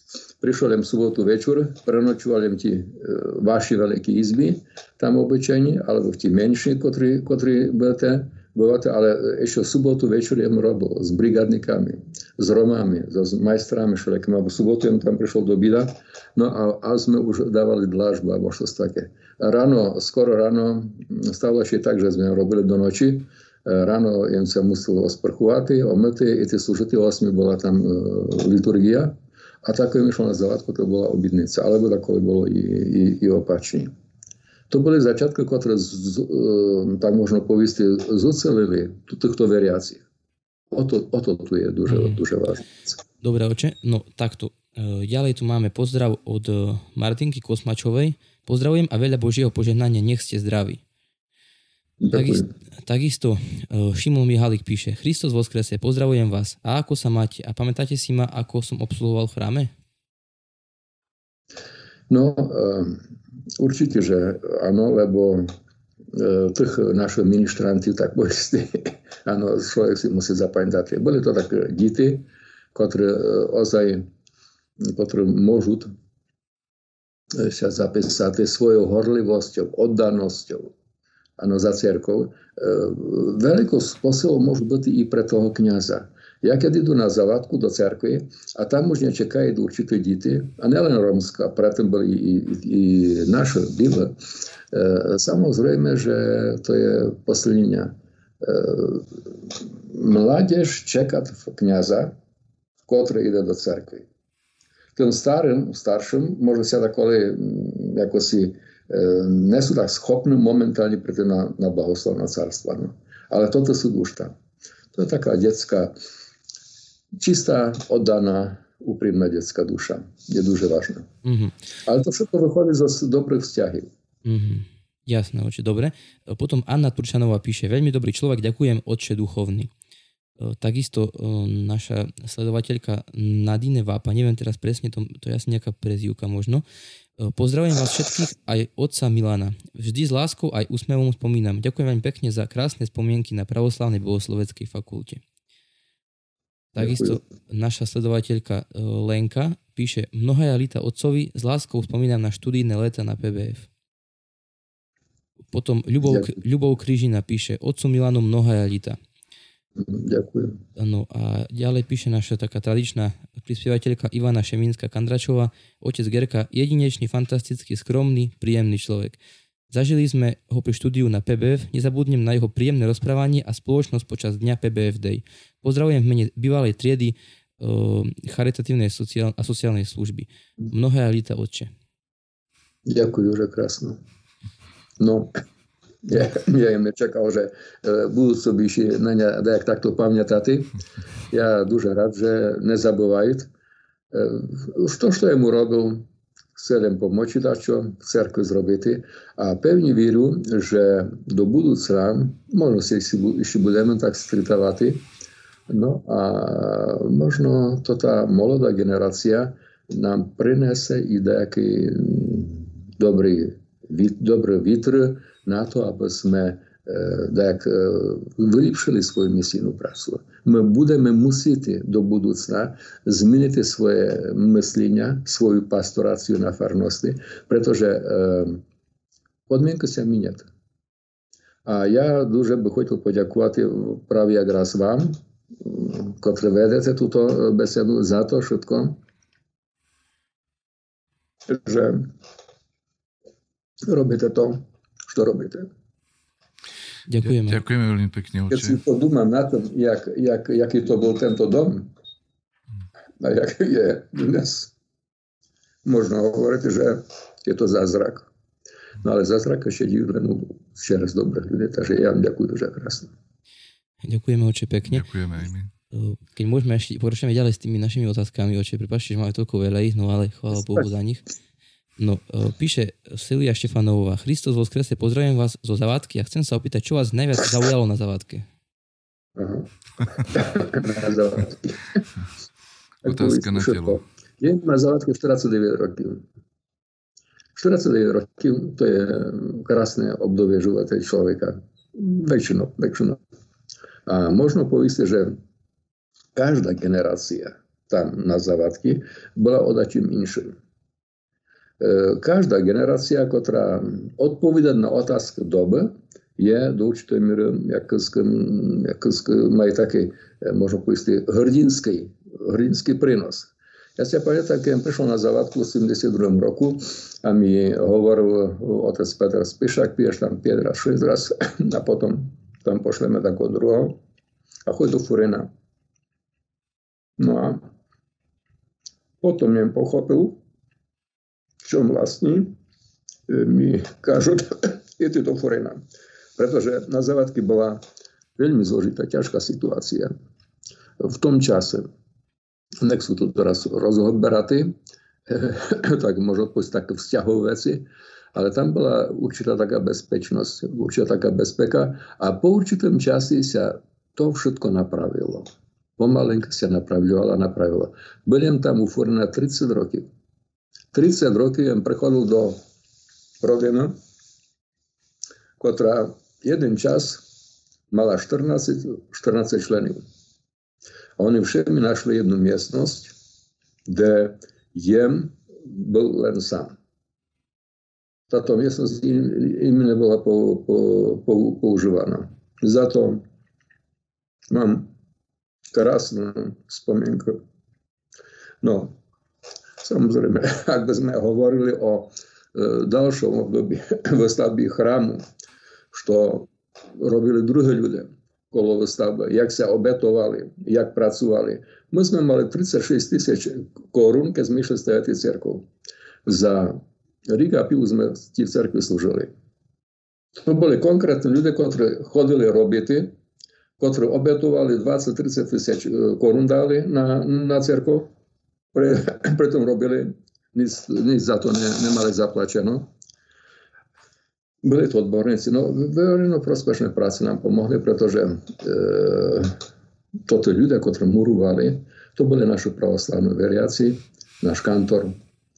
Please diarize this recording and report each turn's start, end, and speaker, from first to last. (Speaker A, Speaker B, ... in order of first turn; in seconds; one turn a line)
Speaker A: 0.4-33.9
Speaker A: 34.7-40.0
Speaker A: 40.7-42.6
Speaker B: 41.9-42.2
Speaker B: 43.2-50.8
Speaker A: 52.0-52.5
Speaker B: 52.1-59.7
Speaker A: 62.1-63.0
Speaker A: 63.6-65.5
Speaker A: 66.1-74.1
Speaker A: 74.8-75.9
Speaker A: 77.3-80.7
Speaker A: 81.4-94.1
Speaker A: 94.7-99.2
Speaker A: 99.9-102.1
Speaker A: 102.9-104.0
Speaker A: 105.0-114.3
Speaker A: 114.9-116.0
Speaker A: 117.2-121.1
Speaker B: 121.2-121.5
Speaker A: 121.8-123.9
Speaker B: 124.2-129.7
Speaker B: 130.4-136.6
Speaker B: 137.2-145.2
Speaker B: 146.7-153.7
Speaker A: 146.8-147.2
Speaker B: 155.5-159.0
Speaker A: 159.8-160.6
Speaker B: 160.8-169.2
Speaker B: 169.7-181.7
Speaker A: 182.8-184.0
Speaker A: 185.0-185.3
Speaker A: 186.0-190.7
Speaker A: 191.3-193.5
Speaker A: 194.1-196.0
Speaker A: 196.5-205.0
Speaker A: 205.7-228.6
Speaker A: 229.5-230.4
Speaker A: 231.6-239.0
Speaker A: 241.5-242.1
Speaker A: 243.8-245.7
Speaker B: 247.1-247.6
Speaker C: 247.2-248.8
Speaker A: 248.5-251.9
Speaker A: 253.2-254.7
Speaker A: 255.8-258.3
Speaker A: 259.0-263.1
Speaker B: 264.0-265.0
Speaker C: 264.9-265.7
Speaker B: 265.9-271.2
Speaker B: 272.0-278.5
Speaker A: 279.4-279.7
Speaker A: 280.2-282.0
Speaker C: 283.0-284.0
Speaker A: 283.0-286.2
Speaker A: 287.6-293.2
Speaker A: 294.1-295.4
Speaker A: 296.3-300.5
Speaker A: 301.8-324.0
Speaker A: 324.6-325.5
Speaker A: 327.2-327.6
Speaker A: 329.2-330.4
Speaker A: 331.6-332.5
Speaker A: 333.3-335.8
Speaker A: 336.4-337.8
Speaker A: 338.4-340.1
Speaker A: 341.0-341.9
Speaker A: 342.8-344.7
Speaker A: 345.3-360.1
Speaker A: 360.9-362.6
Speaker A: 363.4-363.9
Speaker A: 365.6-367.2
Speaker A: 367.9-370.0
Speaker A: 371.2-373.1
Speaker A: 373.9-376.7
Speaker A: 378.3-383.2
Speaker A: 384.5-384.9
Speaker A: 385.7-387.4
Speaker A: 388.6-388.9
Speaker A: 389.8-395.2
Speaker A: 395.9-405.7
Speaker A: 406.2-409.3
Speaker A: 410.4-413.1
Speaker A: 413.8-418.1
Speaker A: 418.7-422.9
Speaker A: 424.6-429.6
Speaker A: 430.2-435.1